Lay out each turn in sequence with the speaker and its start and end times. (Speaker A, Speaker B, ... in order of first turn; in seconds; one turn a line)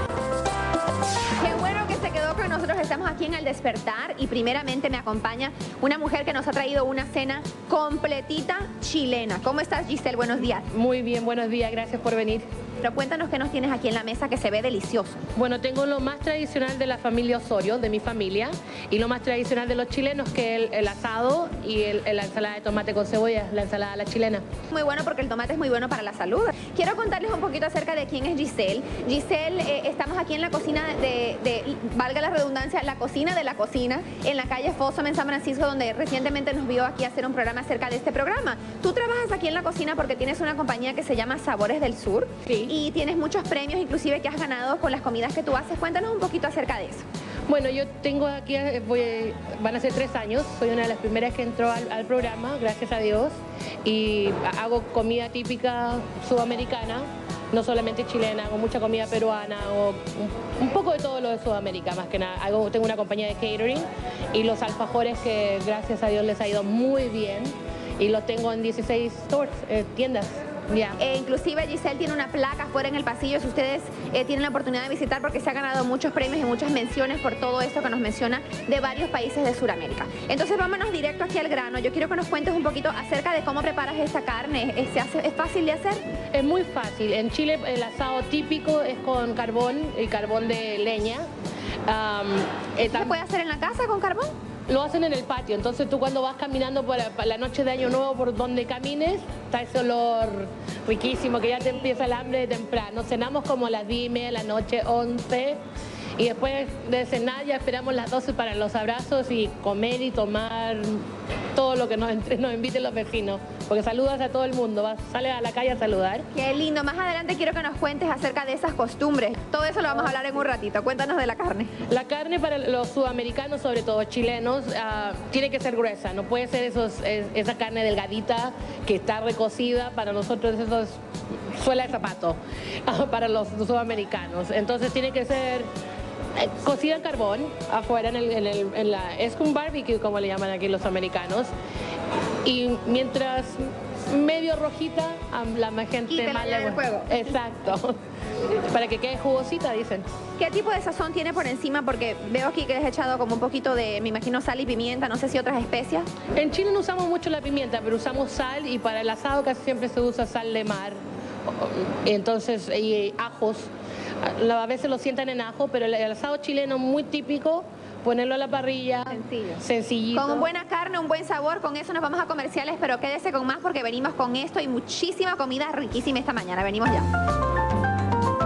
Speaker A: 1.4-10.7
Speaker B: 10.7-12.4
Speaker A: 12.8-15.2
Speaker B: 15.3-24.4
Speaker A: 24.7-47.0
Speaker B: 42.5-42.7
Speaker B: 47.5-71.0
Speaker A: 71.0-86.0
Speaker B: 86.3-91.3
Speaker B: 91.9-93.2
Speaker A: 92.8-94.3
Speaker B: 94.7-105.6
Speaker B: 106.2-116.3
Speaker A: 116.3-121.7
Speaker B: 121.9-131.0
Speaker B: 131.5-135.7
Speaker B: 136.3-141.5
Speaker B: 142.4-147.9
Speaker A: 146.1-147.2
Speaker B: 148.5-150.1
Speaker A: 150.4-156.1
Speaker B: 156.4-163.7
Speaker B: 164.2-170.5
Speaker A: 169.1-177.1